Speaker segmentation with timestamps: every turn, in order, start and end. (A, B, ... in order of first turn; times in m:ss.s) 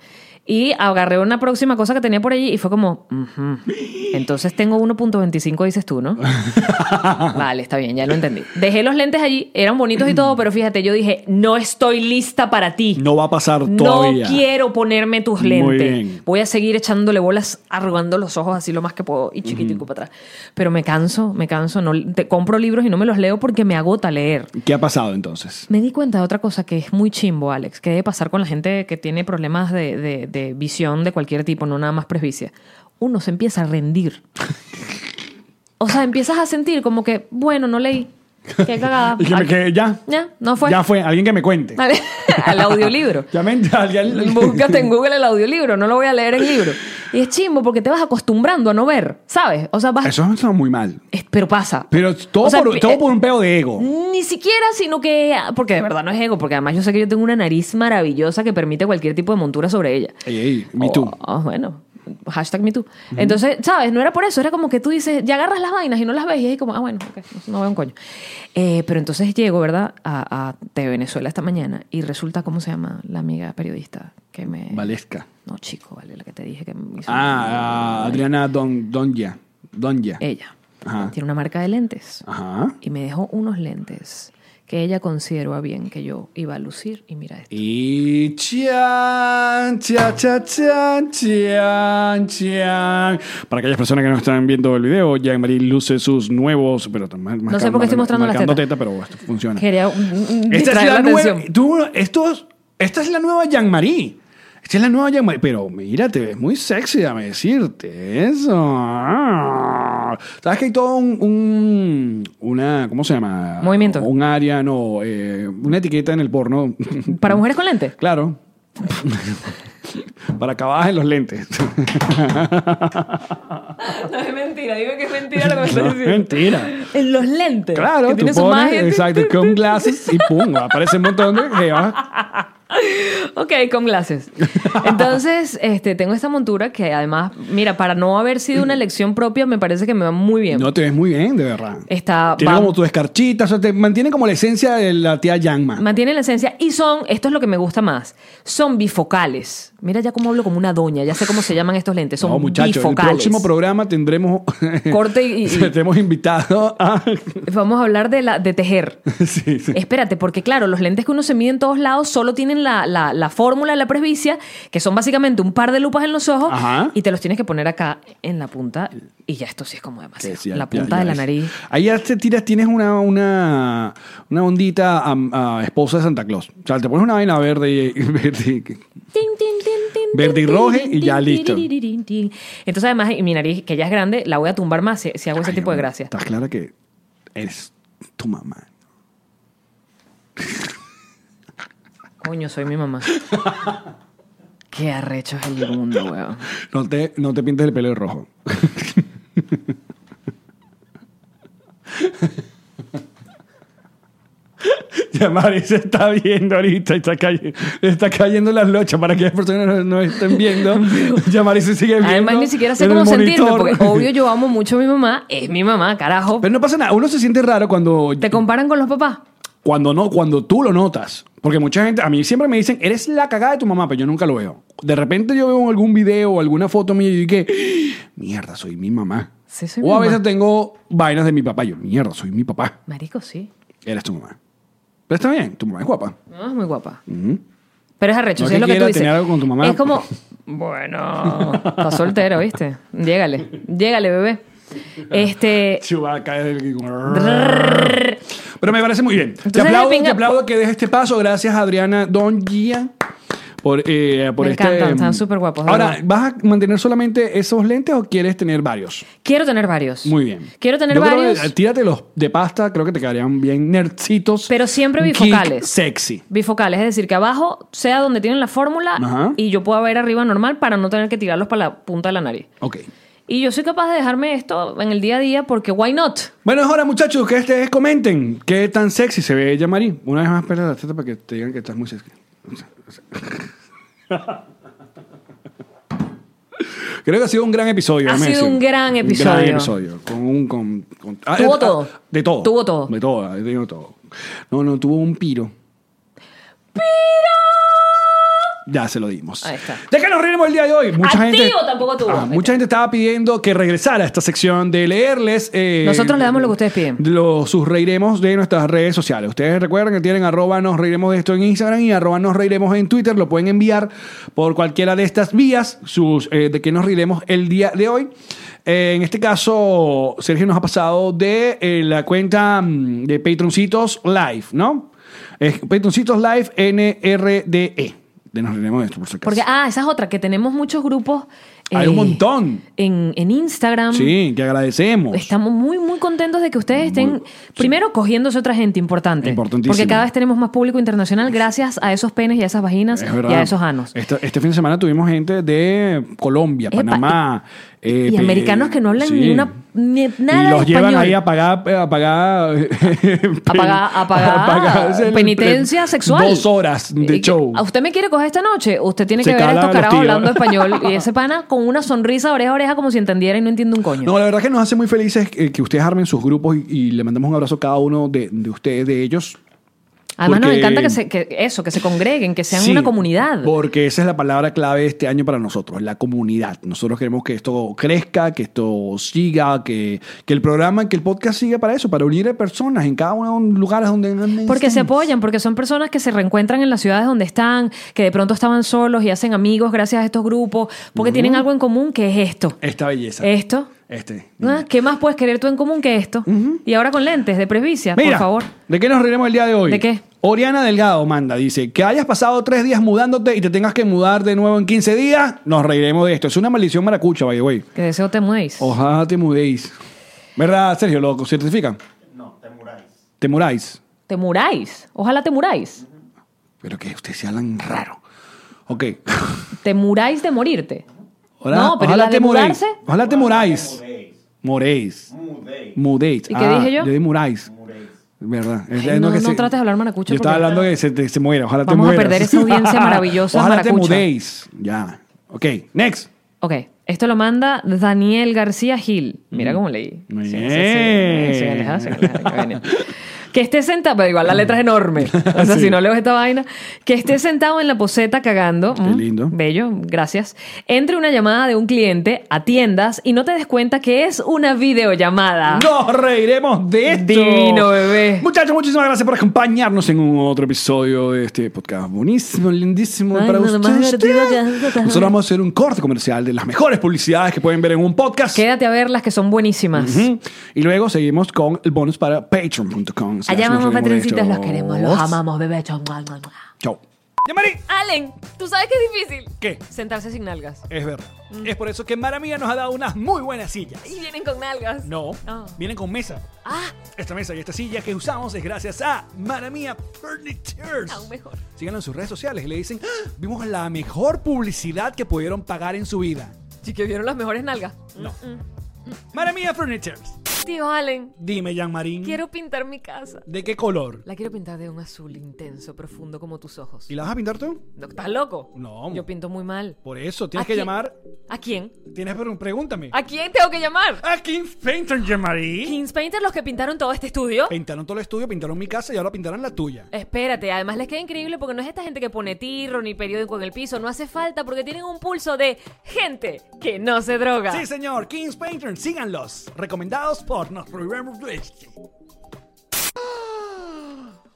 0:00.4-0:06.3 A
0:03.7-0:04.1 B
0:06.3-0:07.4 B
0:07.3-0:13.0 A
0:12.9-0:14.4 B
0:13.6-0:24.6 A
0:15.4-0:16.2 B
0:19.4-0:19.8 B
0:24.6-0:25.7 B
0:25.7-0:34.2 A
0:35.8-0:40.8 A
0:38.6-0:40.0 B
0:40.6-0:44.9 B
0:41.8-0:43.3 A
0:44.1-0:50.1 A
0:50.0-0:51.0 B
0:51.1-0:53.1 A
0:51.9-0:53.9 B
0:53.8-1:00.2 A
1:00.2-1:01.1 B
1:00.8-1:08.0 A
1:08.5-1:14.9 A
1:14.7-1:15.3 B
1:15.4-1:18.2 A
1:17.0-1:20.2 B
1:20.2-1:22.2 A
1:20.8-1:21.1 B
1:22.2-1:22.7 B
1:22.8-1:27.6 A
1:27.5-1:39.7 B
1:37.5-1:38.6 A
1:39.6-1:41.4 A
1:40.5-1:57.4 B
1:53.6-1:54.1 A
1:57.1-1:57.9 A
1:58.0-2:03.7 B
2:03.8-2:20.7 A
2:05.3-2:06.8 B
2:07.7-2:12.0 B
2:14.6-2:15.1 B
2:20.5-2:25.8 B
2:21.9-2:22.7 A
2:25.8-2:33.5 A
2:32.2-2:37.4 B
2:34.9-2:35.7 A
2:37.4-2:39.0 A
2:39.1-2:39.8 B
2:39.7-2:51.6 A
2:46.5-2:46.9 B
2:50.2-2:58.8 B
2:59.1-3:06.1 A
3:00.1-3:01.7 B
3:05.4-3:06.7 B
3:07.3-3:08.7 B
3:10.4-3:10.7 B
3:12.2-3:13.2 A
3:14.7-3:16.4 A
3:16.7-3:19.7 B
3:21.9-3:22.4 B
3:24.6-3:34.1 B
3:30.3-3:31.2 A
3:32.0-3:36.4 A
3:36.4-3:38.4 B
3:38.2-3:39.2 A
3:39.6-3:52.8 B
3:49.5-3:50.2 A
3:52.9-3:53.5 A
3:53.8-3:54.4 B
3:55.1-3:56.2 B
3:56.3-3:57.0 A
3:57.1-3:57.4 B
3:58.0-4:04.4 A
3:58.4-4:00.0 B
4:01.3-4:02.1 B
4:05.1-4:05.8 A
4:05.8-4:08.1 B
4:07.0-4:08.2 A
4:08.6-4:12.9 B
4:09.4-4:10.4 A
4:13.6-4:19.1 B
4:14.4-4:16.0 A
4:19.2-4:21.5 A
4:20.0-4:26.2 B
4:24.5-4:25.7 A
4:26.3-4:32.5 A
4:29.0-4:29.4 B
4:32.6-4:32.8 B
4:33.3-4:36.3 A
4:36.4-4:43.5 B
4:44.1-4:44.4 B
4:46.6-4:54.0 B
4:48.0-4:49.7 A
4:51.3-4:52.9 A
4:54.5-4:55.5 B
4:56.7-4:58.4 A
4:58.6-5:18.1 B
4:59.4-4:59.8 A
5:01.0-5:02.6 A
5:05.8-5:07.0 A
5:18.6-5:29.4 B
5:29.2-5:32.2 A
5:31.7-5:32.6 B
5:32.7-5:34.2 A
5:33.9-5:35.3 B
5:35.1-5:43.9 A
5:36.7-5:37.7 B
5:39.2-5:40.1 B
5:42.9-5:49.5 B
5:46.7-5:47.2 A
5:48.0-5:51.2 A
5:50.3-5:57.6 B
5:53.5-5:56.5 A
5:57.0-6:04.1 A
5:59.2-6:01.0 B
6:04.0-6:09.4 B
6:10.2-6:13.5 A
6:10.2-6:11.0 B
6:12.5-6:25.1 B
6:24.4-6:32.6 A
6:30.9-6:31.4 B
6:32.6-6:34.6 B
6:33.2-6:33.7 A
6:34.4-6:38.5 A
6:36.3-6:36.6 B
6:38.0-6:47.7 B
6:39.7-6:40.0 A
6:47.7-6:48.7 A
6:48.6-6:49.7 B
6:50.4-6:51.8 B
6:52.1-6:53.0 C
6:53.2-6:53.8 B
6:54.1-6:55.8 A
6:56.6-6:58.0 B
6:58.7-6:59.5 B
6:59.6-7:00.8 A
7:01.4-7:03.8 B
7:01.5-7:02.8 A
7:02.8-7:04.2 C
7:04.4-7:05.1 B
7:05.1-7:05.8 C
7:05.7-7:07.5 B
7:06.3-7:06.9 A
7:07.4-7:08.0 C
7:08.2-7:09.5 B
7:08.7-7:10.7 A
7:10.1-7:16.1 B
7:11.6-7:14.1 A
7:16.4-7:35.7 A
7:19.3-7:22.9 B
7:25.0-7:25.8 B
7:28.7-7:29.3 B
7:35.5-7:48.4 B
7:36.8-7:38.3 A
7:43.1-7:45.1 A
7:48.3-7:50.1 A
7:49.7-7:55.2 B
7:53.3-7:56.4 A
7:56.6-7:57.6 B
7:57.7-8:00.7 A
8:00.7-8:04.0 B
8:03.8-8:05.6 A
8:04.8-8:06.3 B
8:06.4-8:06.7 A
8:06.9-8:16.4 B
8:10.9-8:11.4 A
8:16.6-8:18.4 A
8:19.1-8:20.2 B
8:20.4-8:21.2 A
8:21.2-8:22.2 B
8:22.0-8:23.2 A
8:23.3-8:24.0 B
8:24.0-8:26.9 A
8:26.9-8:27.6 B
8:27.8-8:29.8 A
8:28.5-8:29.0 B
8:29.8-8:30.9 B
8:30.4-8:30.7 A
8:31.3-8:31.8 A
8:31.9-8:32.9 B
8:32.9-8:34.0 A
8:34.0-8:35.8 B
8:35.6-8:37.5 A
8:37.5-8:39.9 B
8:39.9-8:47.6 A
8:47.5-8:51.7 B
8:53.0-8:54.0 B